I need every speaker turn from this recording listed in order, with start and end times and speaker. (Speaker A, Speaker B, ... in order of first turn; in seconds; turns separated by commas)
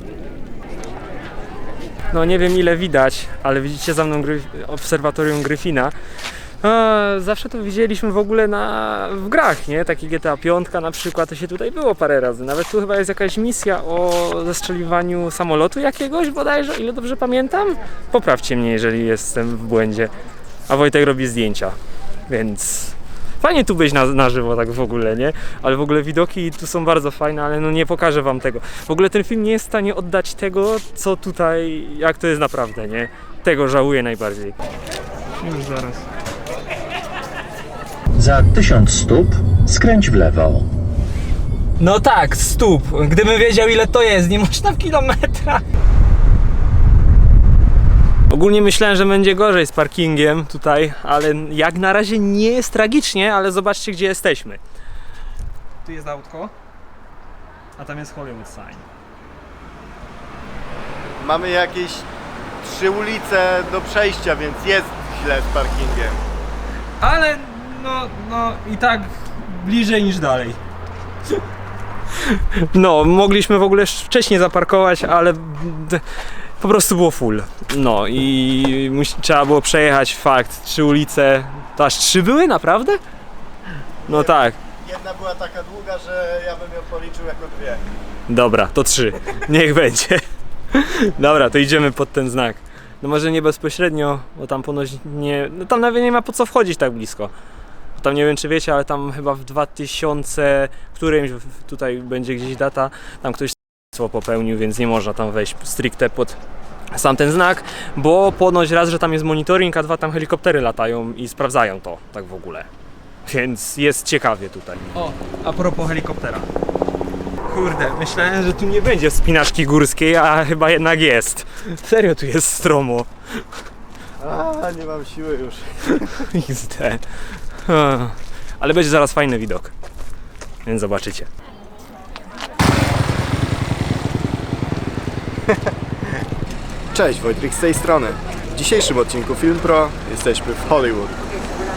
Speaker A: 2.1-5.9, Speaker A: 6.6-20.1, Speaker A: 20.7-21.7, Speaker A: 22.3-34.5, Speaker A: 35.4-36.0, Speaker B: 38.2-40.7, Speaker A: 41.8-45.6, Speaker A: 48.3-54.6, Speaker A: 55.8-56.5, Speaker A: 57.8-58.8, Speaker C: 61.2-62.1, Speaker C: 62.6-66.2, Speaker A: 67.0-70.6, Speaker A: 72.1-76.0, Speaker A: 76.6-83.0, Speaker C: 84.0-87.8, Speaker A: 84.1-84.6, Speaker A: 88.3-97.3, Speaker A: 98.0-106.4, Speaker A: 106.9-112.7, Speaker A: 113.2-116.5, Speaker A: 117.5-123.4, Speaker C: 124.2-126.2, Speaker A: 125.9-127.0, Speaker A: 127.5-129.7, Speaker A: 130.7-131.3, Speaker C: 136.9-141.2